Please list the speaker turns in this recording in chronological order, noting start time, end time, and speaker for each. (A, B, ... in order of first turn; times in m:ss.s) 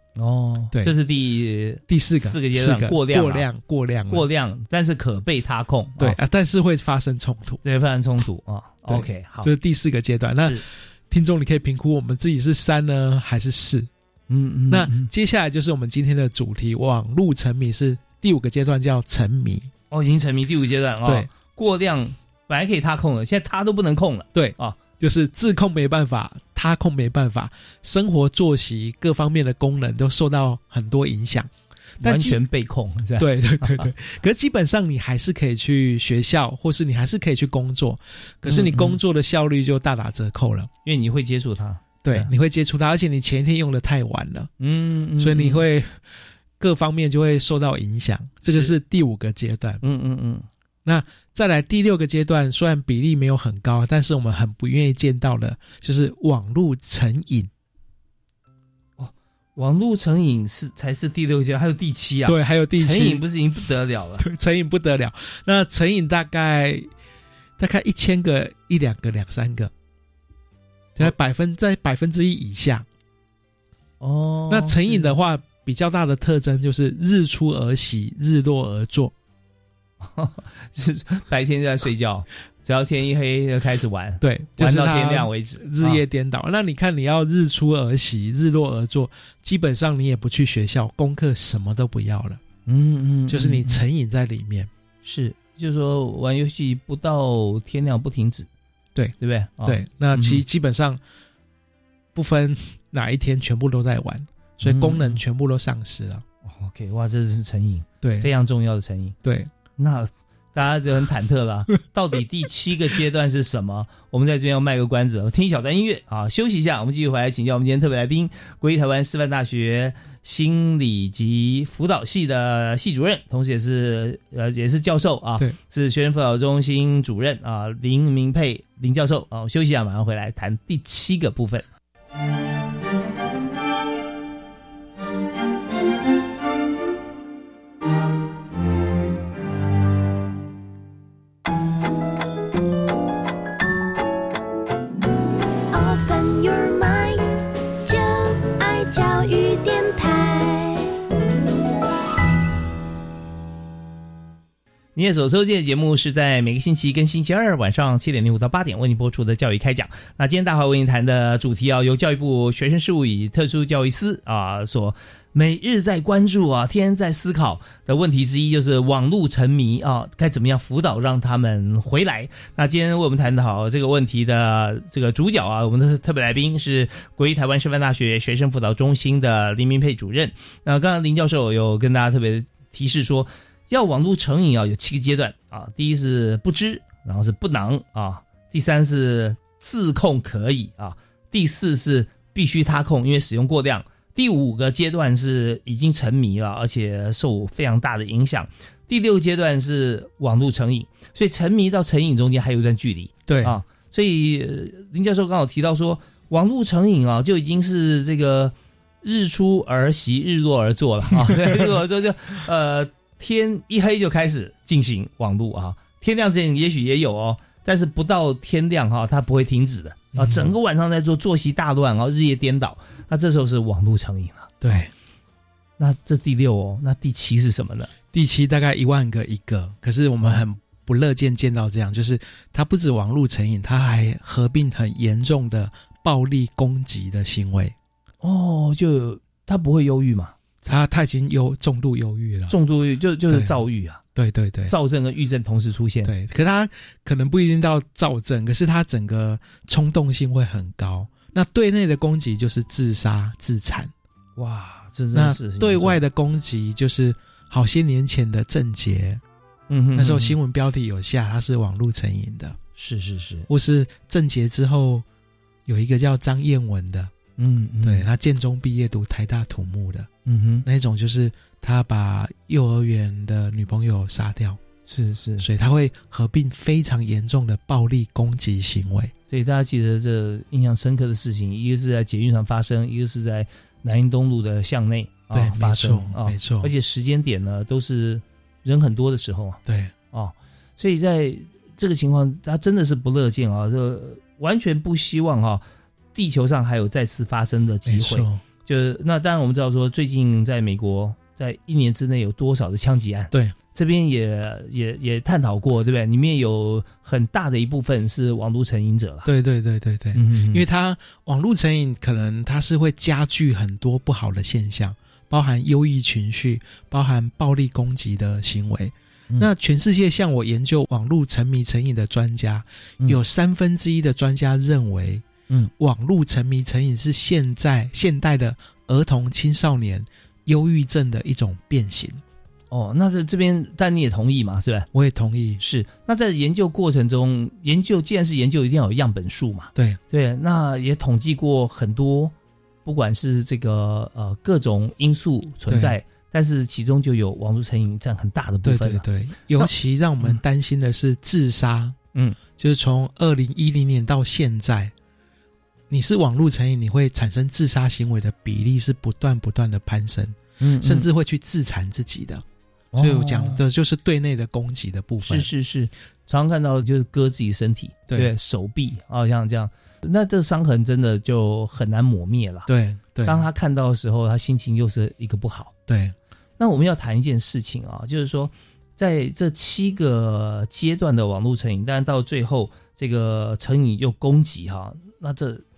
0:00.2-0:03.4 A
0:01.9-0:04.2 B
0:04.1-0:06.2 A
0:06.0-0:07.6 B
0:07.6-0:09.5 A
0:08.9-0:13.9 B
0:10.4-0:10.6 A
0:14.3-0:15.1 A
0:14.7-0:19.7 B
0:19.9-0:24.8 A
0:21.0-0:21.3 B
0:24.3-0:32.4 B
0:32.0-0:33.9 A
0:33.2-0:40.7 B
0:38.4-0:39.0 A
0:40.8-0:42.3 A
0:42.0-0:44.5 B
0:44.6-0:45.6 A
0:45.2-0:46.0 B
0:46.6-0:49.8 B
0:48.5-0:48.7 A
0:49.8-0:50.5 A
0:50.8-0:57.5 B
0:59.0-1:04.2 A
1:02.2-1:03.2 B
1:04.2-1:06.9 B
1:07.6-1:09.7 B
1:11.0-1:12.9 B
1:14.0-1:15.2 A
1:14.5-1:19.1 B
1:20.0-1:26.0 A
1:24.2-1:32.4 B
1:32.6-1:33.8 A
1:33.3-1:34.7 B
1:35.0-1:38.5 A
1:38.9-1:41.0 B
1:39.2-1:40.4 A
1:42.1-1:46.2 B
1:44.6-1:45.2 A
1:46.4-1:49.2 A
1:48.0-1:48.3 B
1:49.2-1:49.5 B
1:49.8-2:11.6 A
2:25.7-2:27.2 C
2:27.8-2:31.0 C
2:35.0-3:44.8 A
3:23.3-3:23.6 B
3:31.3-3:31.6 B
3:40.1-3:40.5 B
3:44.6-3:44.9 B
3:45.8-3:47.9 A
3:48.1-3:57.8 B
3:58.2-4:00.6 A
4:00.7-4:02.6 B
4:02.5-4:04.0 A
4:03.3-4:03.6 B
4:04.1-4:04.7 B
4:04.7-4:06.1 A
4:06.0-4:13.9 B
4:14.4-4:16.0 A
4:15.1-4:19.2 B
4:19.7-4:20.4 A
4:19.9-4:22.6 B
4:22.8-4:23.5 A
4:23.5-4:25.0 B
4:25.6-4:27.1 B
4:27.4-4:28.0 A
4:27.8-4:30.1 B
4:30.2-4:30.6 A
4:30.6-4:34.6 B
4:34.9-4:35.4 A
4:35.4-4:39.1 B
4:39.3-4:49.6 A
4:45.3-4:46.7 B
4:49.6-4:49.9 B
4:50.1-5:09.3 A
4:57.9-4:58.4 B
5:09.2-5:25.2 B
5:10.1-5:10.6 A
5:25.8-5:32.2 B
5:32.7-5:34.9 A
5:34.9-5:35.6 B
5:35.6-5:42.3 A
5:42.8-5:49.0 A
5:45.7-5:46.0 B
5:48.6-5:52.0 B
5:52.6-5:54.9 B
5:55.9-6:02.4 B
6:00.6-6:01.1 A
6:02.9-6:03.6 A
6:03.0-6:05.5 B
6:05.2-6:12.7 A
6:12.7-6:13.5 B
6:13.2-6:15.7 A
6:15.9-6:16.1 B
6:16.6-6:25.6 A